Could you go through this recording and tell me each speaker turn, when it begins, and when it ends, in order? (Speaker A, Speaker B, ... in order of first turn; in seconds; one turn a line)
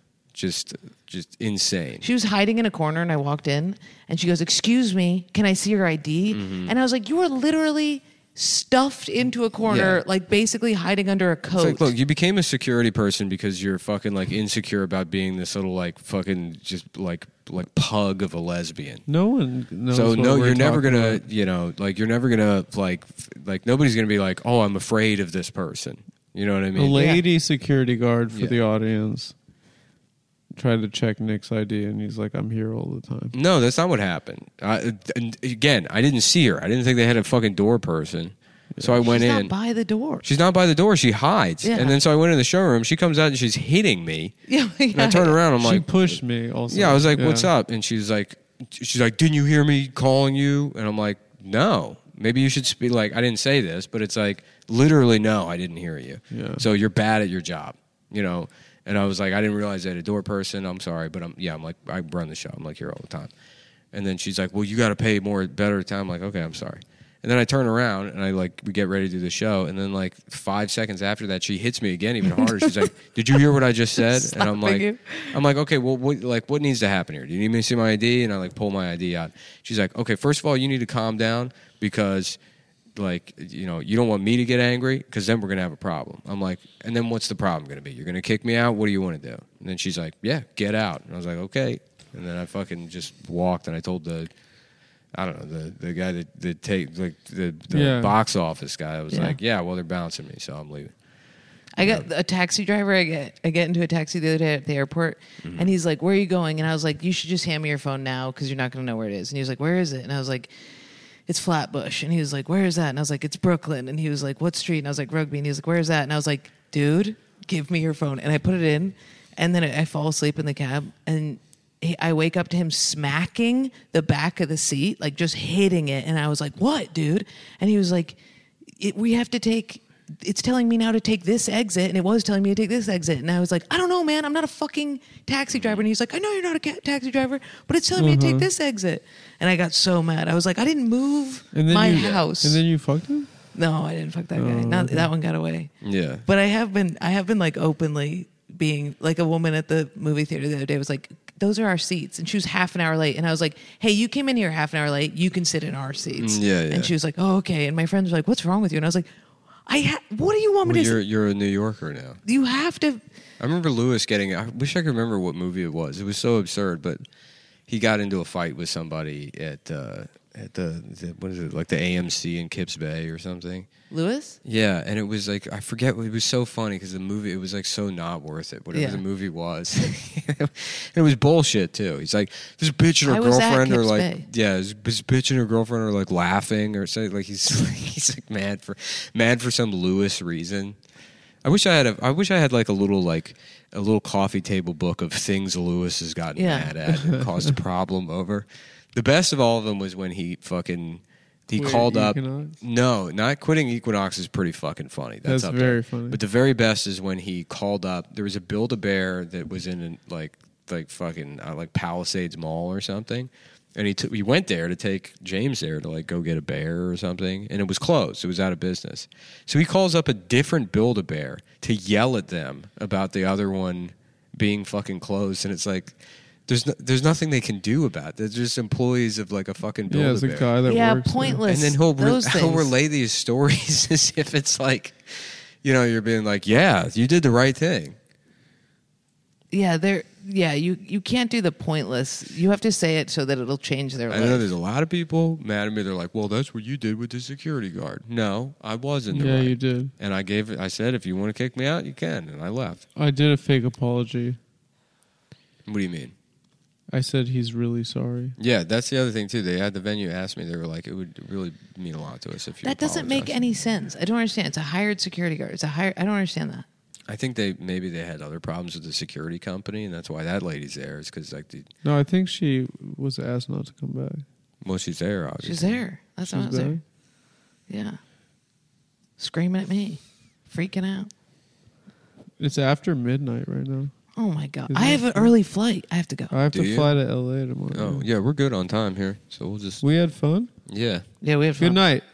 Speaker A: 0.3-2.0
Speaker B: 2.0-11.9
Speaker A: 6.3-6.7
Speaker A: 9.7-10.0
Speaker A: 11.5-19.0
Speaker C: 19.1-21.2
Speaker A: 19.9-27.0
Speaker C: 26.7-29.3
Speaker B: 26.9-27.2
Speaker A: 28.3-28.6
Speaker C: 30.5-33.3
Speaker A: 33.3-39.5
Speaker C: 38.7-39.0
Speaker B: 39.0-40.2
Speaker A: 40.2-44.3
Speaker B: 41.6-42.0
Speaker B: 44.5-45.4
Speaker A: 44.9-46.1
Speaker C: 45.6-47.5
Speaker A: 46.7-63.3
Speaker C: 56.3-56.6
Speaker A: 63.9-82.4
Speaker B: 72.4-72.8
Speaker B: 74.0-75.4
Speaker A: 82.9-94.3
Speaker A: 95.1-100.9
Speaker C: 97.7-98.1
Speaker B: 99.1-99.4
Speaker B: 101.8-110.5
Speaker A: 101.8-102.1
Speaker B: 111.3-128.2
Speaker B: 128.8-142.6
Speaker A: 135.5-135.8
Speaker C: 137.9-138.5
Speaker C: 141.5-143.3
Speaker A: 141.9-142.2
Speaker B: 143.5-145.7
Speaker C: 144.3-145.1
Speaker A: 145.8-146.2
Speaker B: 146.2-159.1
Speaker A: 156.1-156.9
Speaker B: 159.7-161.0
Speaker A: 160.6-162.2
Speaker B: 162.2-163.0
Speaker A: 163.4-167.0
Speaker A: 167.7-173.7
Speaker B: 173.9-174.4
Speaker A: 174.4-190.8
Speaker B: 178.7-179.0
Speaker B: 183.1-184.3
Speaker A: 191.4-230.5
Speaker B: 196.4-196.8
Speaker C: 197.1-197.5
Speaker C: 201.5-202.6
Speaker C: 205.2-206.2
Speaker C: 229.9-231.4
Speaker B: 230.7-232.7
Speaker A: 231.4-237.9
Speaker B: 239.5-244.4
Speaker A: 244.1-252.8
Speaker C: 249.1-249.9
Speaker C: 252.9-254.4
Speaker A: 255.6-256.1
Speaker C: 256.9-258.4
Speaker A: 258.4-263.5
Speaker B: 262.6-266.6
Speaker A: 267.1-271.7
Speaker C: 271.8-274.2
Speaker A: 274.6-275.8
Speaker B: 275.4-276.8
Speaker C: 276.2-276.8
Speaker B: 277.7-278.0
Speaker B: 279.2-281.1
Speaker C: 282.4-283.9
Speaker B: 284.1-286.3
Speaker C: 284.7-285.3
Speaker C: 286.3-288.1
Speaker A: 286.5-286.9
Speaker A: 287.7-289.8
Speaker C: 289.8-290.5
Speaker A: 290.6-291.0
Speaker B: 291.2-291.8
Speaker C: 291.6-292.1